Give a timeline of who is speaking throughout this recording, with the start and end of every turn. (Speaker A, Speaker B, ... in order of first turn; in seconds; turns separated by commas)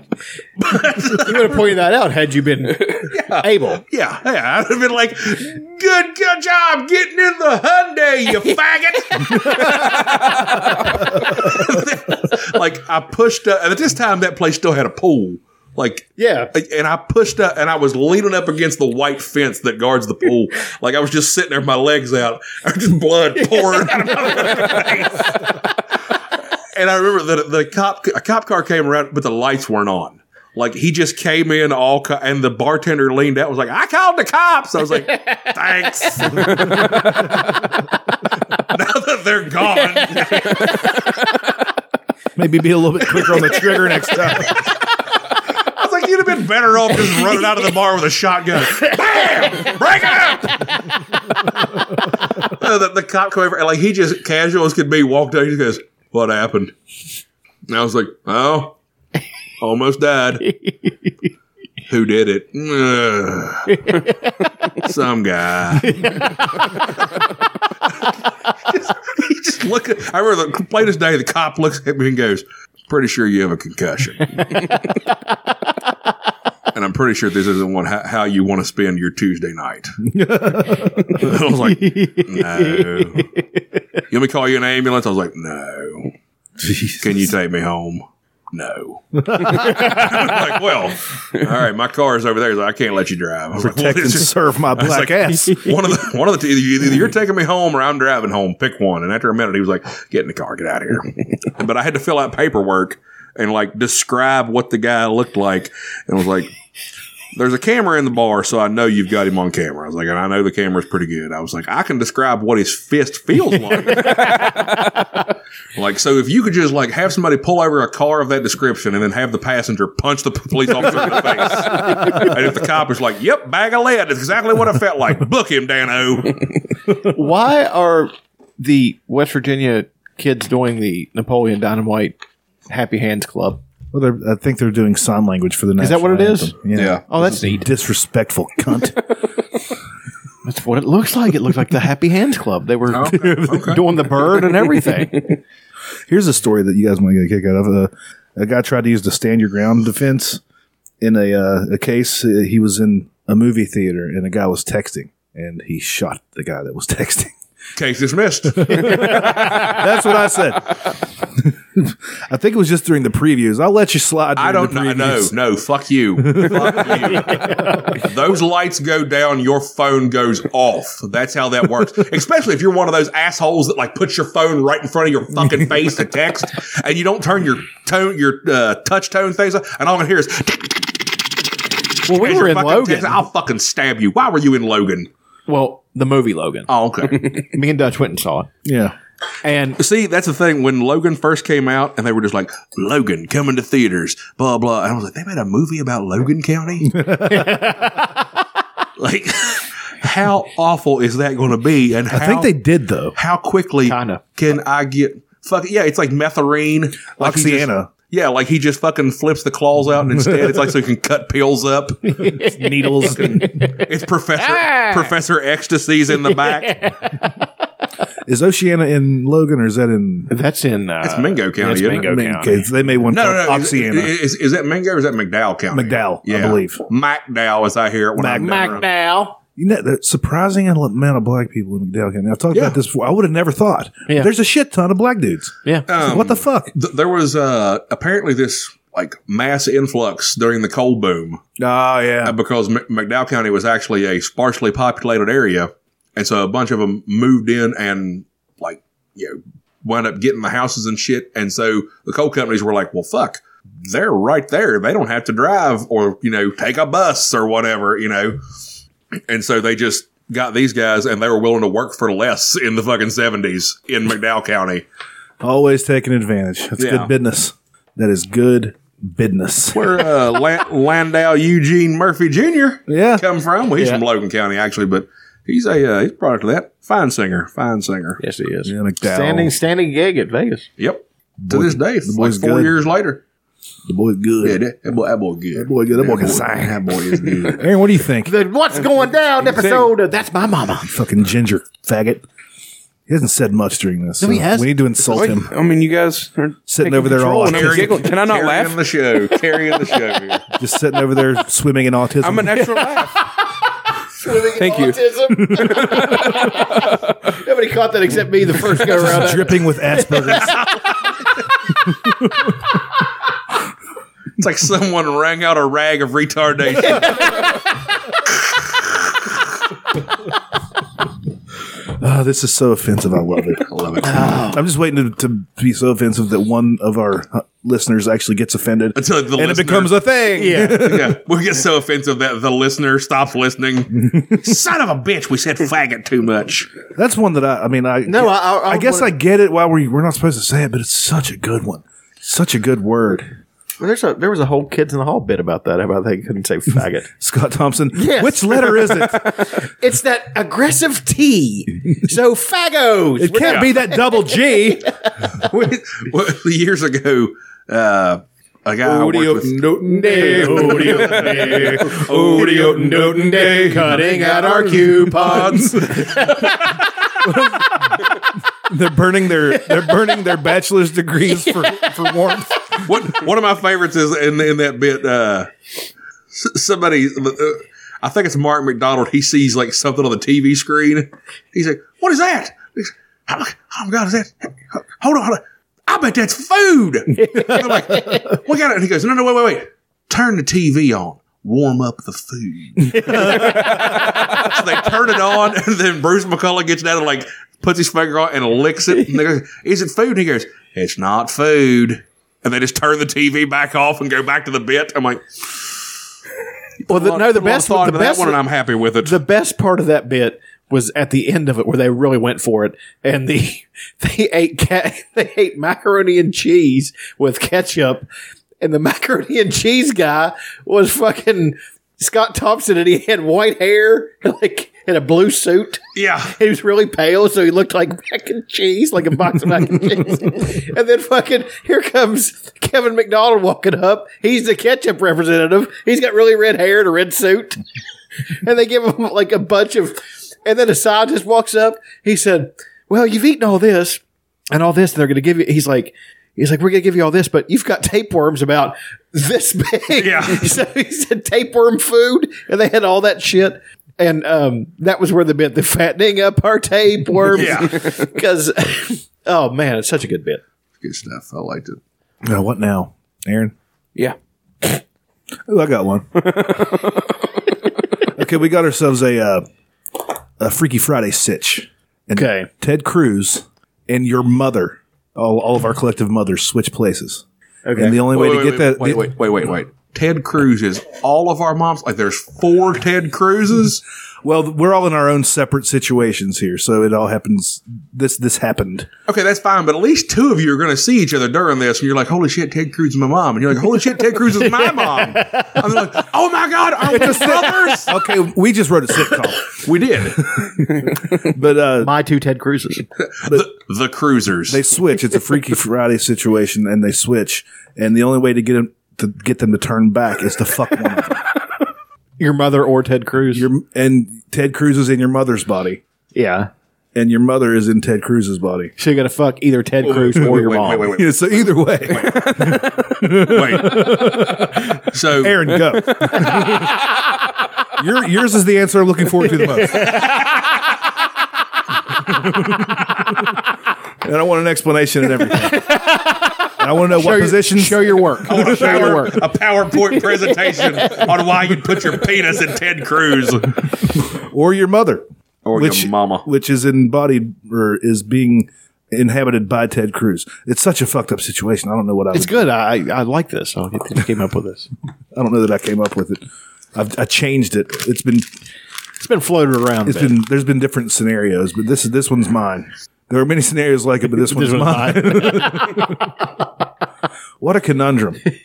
Speaker A: 0.6-1.7, Speaker B: 1.1-3.8, Speaker A: 3.1-25.6, Speaker B: 16.2-16.5, Speaker B: 23.4-25.1, Speaker A: 26.8-37.4, Speaker B: 36.1-36.4, Speaker C: 36.4-37.2, Speaker A: 38.7-41.0, Speaker B: 40.0-40.6, Speaker C: 42.4-44.6, Speaker A: 45.7-51.0, Speaker A: 52.4-56.7, Speaker A: 57.7-58.8, Speaker A: 59.6-60.5, Speaker B: 60.4-61.1, Speaker A: 61.9-63.9, Speaker B: 63.7-64.3, Speaker A: 64.8-67.1, Speaker B: 65.8-66.6, Speaker A: 68.7-74.6, Speaker A: 76.7-80.0, Speaker C: 80.0-81.3, Speaker A: 81.1-83.3, Speaker B: 81.8-83.4, Speaker A: 84.1-86.1, Speaker C: 86.6-87.3, Speaker A: 87.0-106.5, Speaker C: 89.3-90.0, Speaker C: 93.6-95.7, Speaker A: 107.3-114.7, Speaker A: 115.8-126.5, Speaker B: 127.0-132.2, Speaker B: 132.7-133.6, Speaker C: 133.9-139.1, Speaker B: 135.8-136.6, Speaker A: 136.8-137.0, Speaker B: 137.1-137.7, Speaker B: 140.4-145.3, Speaker A: 142.9-144.2, Speaker C: 143.1-143.8, Speaker C: 146.1-150.4, Speaker C: 151.0-157.3, Speaker A: 157.8-159.7, Speaker C: 158.5-160.8, Speaker B: 158.9-159.1, Speaker C: 161.3-165.3, Speaker A: 164.4-180.8, Speaker C: 166.2-167.6, Speaker B: 167.3-168.0, Speaker B: 182.1-183.2, Speaker A: 182.1-185.1, Speaker B: 185.5-186.7, Speaker A: 186.7-187.4, Speaker B: 187.2-188.5, Speaker C: 188.7-188.9, Speaker B: 189.4-189.8, Speaker A: 189.8-197.1, Speaker C: 196.9-197.5, Speaker B: 197.2-198.2, Speaker A: 199.0-202.5, Speaker C: 202.1-203.2, Speaker A: 203.2-212.2, Speaker B: 203.8-204.2, Speaker C: 207.2-207.9, Speaker C: 210.1-210.7, Speaker B: 212.1-213.7, Speaker C: 212.2-213.7, Speaker A: 213.2-216.9, Speaker B: 214.4-215.1, Speaker B: 216.3-217.1, Speaker C: 218.3-220.3, Speaker B: 220.3-222.5, Speaker A: 221.0-222.3, Speaker C: 222.1-224.1, Speaker A: 223.1-228.9, Speaker C: 225.7-226.8, Speaker C: 228.2-228.8, Speaker B: 228.3-229.4, Speaker C: 229.6-236.7, Speaker A: 232.5-232.8, Speaker A: 235.9-241.4, Speaker C: 241.6-242.4, Speaker A: 242.2-258.4, Speaker A: 259.3-264.8, Speaker C: 265.4-270.0, Speaker A: 266.8-267.1, Speaker A: 269.7-278.2, Speaker C: 272.9-273.2, Speaker B: 278.2-280.7, Speaker C: 278.6-279.5, Speaker A: 280.8-283.2, Speaker C: 281.4-282.8, Speaker C: 283.9-284.6, Speaker A: 284.4-287.7, Speaker C: 285.6-288.3, Speaker B: 288.2-290.9, Speaker D: 289.5-289.9, Speaker C: 290.9-292.2, Speaker C: 293.1-295.5, Speaker B: 294.2-294.7, Speaker D: 295.1-298.8, Speaker C: 296.7-298.1, Speaker A: 297.5-300.4, Speaker C: 300.6-302.9, Speaker D: 302.2-303.2, Speaker B: 304.1-306.8, Speaker D: 304.5-307.1, Speaker C: 305.3-306.4, Speaker B: 307.3-310.7, Speaker C: 308.7-310.8, Speaker C: 311.8-312.7, Speaker A: 314.4-317.5, Speaker B: 316.8-317.6, Speaker A: 318.3-319.1, Speaker C: 322.0-323.7, Speaker A: 323.7-324.4, Speaker B: 324.0-324.6, Speaker C: 324.2-331.2, Speaker A: 328.9-330.0, Speaker B: 330.3-330.9, Speaker A: 330.6-336.7, Speaker C: 334.0-334.5, Speaker C: 336.9-343.3, Speaker B: 338.1-339.1, Speaker B: 343.8-347.1, Speaker C: 347.2-349.4, Speaker B: 347.9-355.1, Speaker C: 353.2-354.9, Speaker A: 353.4-353.7, Speaker A: 355.4-366.9, Speaker C: 358.8-366.2, Speaker B: 359.8-366.7, Speaker C: 367.2-367.8, Speaker C: 368.6-372.9, Speaker B: 371.5-372.1, Speaker A: 372.9-375.5, Speaker A: 376.3-405.8, Speaker B: 387.2-388.4, Speaker C: 392.9-393.8, Speaker B: 393.1-393.8, Speaker A: 406.9-409.2, Speaker B: 406.9-408.4, Speaker B: 409.0-418.1, Speaker B: 418.6-437.6, Speaker A: 425.9-426.3, Speaker B: 438.4-460.4, Speaker A: 450.0-450.6, Speaker A: 457.3-457.9, Speaker A: 460.8-461.8, Speaker C: 462.2-463.5, Speaker C: 465.5-466.4, Speaker D: 466.2-467.2, Speaker C: 468.1-469.4, Speaker C: 470.4-479.1, Speaker B: 472.1-472.5, Speaker B: 477.7-478.0, Speaker A: 478.1-483.8, Speaker C: 484.2-488.9, Speaker A: 489.1-498.0, Speaker B: 494.4-495.7, Speaker C: 496.9-499.6, Speaker A: 499.5-500.5, Speaker C: 500.2-501.9, Speaker B: 501.8-502.9, Speaker A: 503.2-504.6, Speaker C: 504.5-511.3, Speaker B: 512.2-513.5, Speaker C: 513.3-515.8, Speaker B: 516.1-516.5, Speaker C: 517.0-518.7, Speaker B: 518.8-520.9, Speaker A: 519.8-524.2, Speaker C: 520.9-526.8, Speaker A: 524.8-525.6, Speaker C: 527.8-530.0, Speaker A: 529.8-530.4, Speaker C: 532.0-533.4, Speaker C: 534.0-535.8, Speaker B: 535.4-536.4, Speaker C: 536.6-539.0, Speaker B: 536.9-539.2, Speaker A: 538.3-543.7, Speaker C: 544.0-552.5, Speaker A: 545.5-546.3, Speaker B: 552.1-554.7, Speaker C: 555.1-556.2, Speaker C: 556.8-558.3, Speaker B: 559.0-560.2, Speaker C: 559.9-566.1, Speaker B: 564.2-565.9, Speaker C: 567.4-568.2